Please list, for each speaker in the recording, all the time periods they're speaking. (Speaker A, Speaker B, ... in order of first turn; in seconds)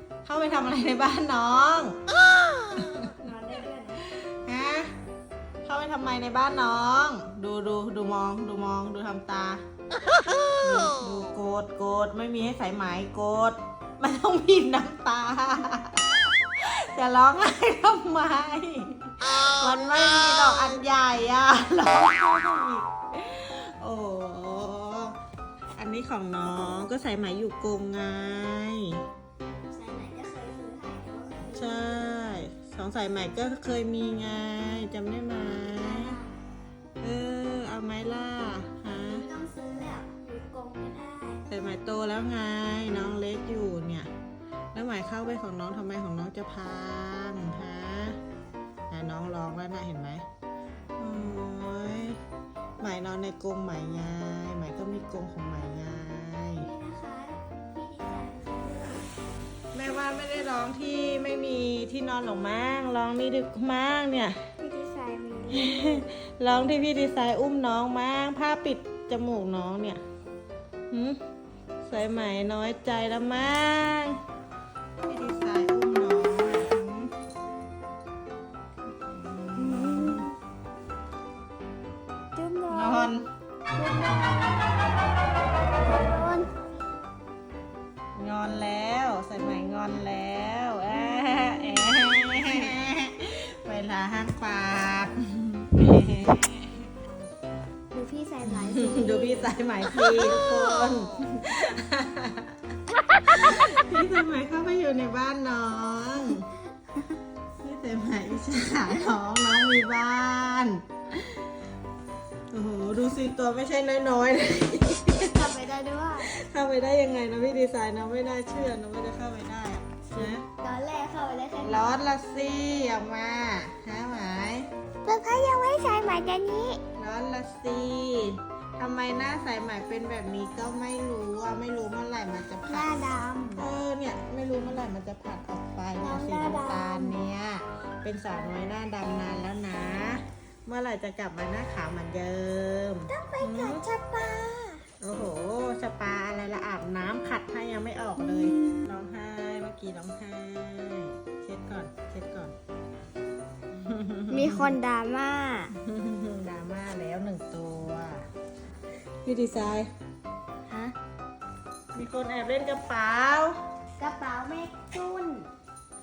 Speaker A: 0.2-2.0, 2.8-3.1, 4.1-4.9, 5.6-9.6, 10.6-25.2, 25.8-29.0, 31.5-36.2, 37.0-39.2, 41.5-44.1, 44.7-48.2, 48.9-50.2, 51.0-52.2, 52.8-56.7, 59.7-64.4, 65.5-70.0, 70.9-71.2, 71.8-74.2, 75.0-77.1, 79.0-80.3, 82.7-83.3, 88.1-96.9, 98.5-102.5, 103.2-106.5, 107.6-110.8, 112.5-115.5, 116.2-120.4, 121.6-124.7, 127.0-132.9, 133.6-143.8, 145.0-152.6, 153.7-154.7, 155.7-158.2, 159.2-159.9, 161.9-163.6
Speaker B: 3.2-4.0, 29.7-32.0, 35.6-36.4, 38.9-41.5, 56.6-59.1, 64.6-66.1, 79.6-80.3, 82.3-83.1, 83.7-84.7, 85.8-86.5, 97.9-99.5, 115.2-116.3, 120.2-122.0, 125.0-126.8, 132.7-133.7, 136.0-137.2, 143.1-144.8, 148.3-148.7, 154.3-155.7, 160.7-160.9, 164.0-165.5